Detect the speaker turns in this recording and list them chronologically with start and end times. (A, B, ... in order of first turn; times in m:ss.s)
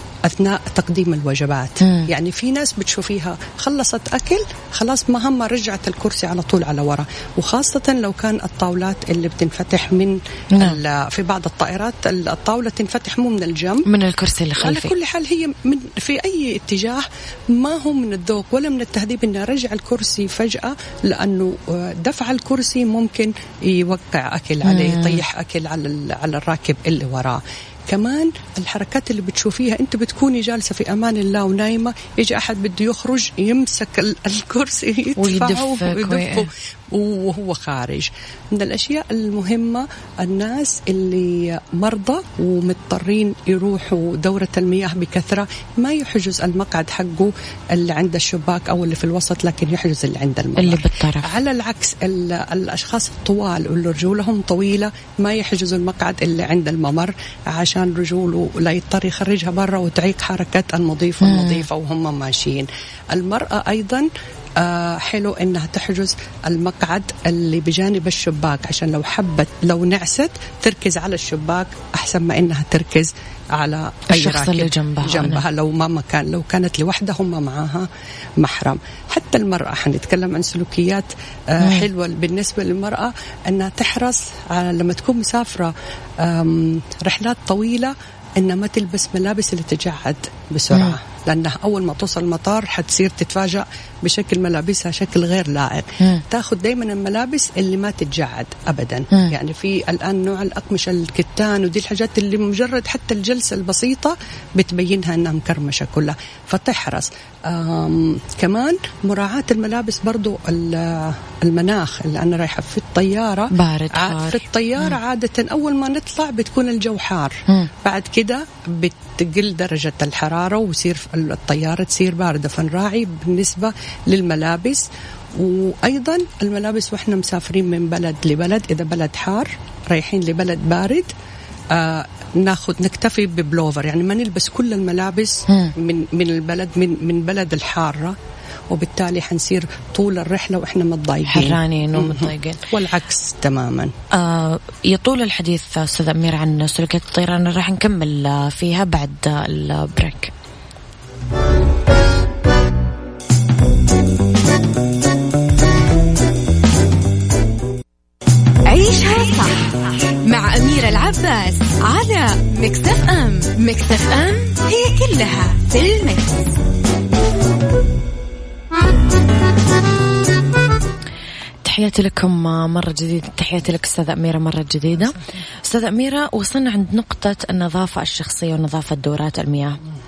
0:00.2-0:13.9 A
0:01.8-0:02.1 B
0:10.5-0:10.8 B
0:13.9-0:14.9 B
0:14.6-2:11.1 A
0:24.6-0:25.2 B
0:35.2-0:36.5 B
0:50.6-0:51.3 B
1:01.2-1:01.7 B
1:14.1-1:15.4 B
1:21.6-1:21.9 B
1:53.5-1:54.4 B
2:11.7-2:18.2 A
2:15.5-2:15.7 B
2:18.7-2:23.9 A
2:21.3-2:22.6 B
2:24.1-2:30.3 B
2:38.7-2:46.6 C
2:51.6-2:59.8 B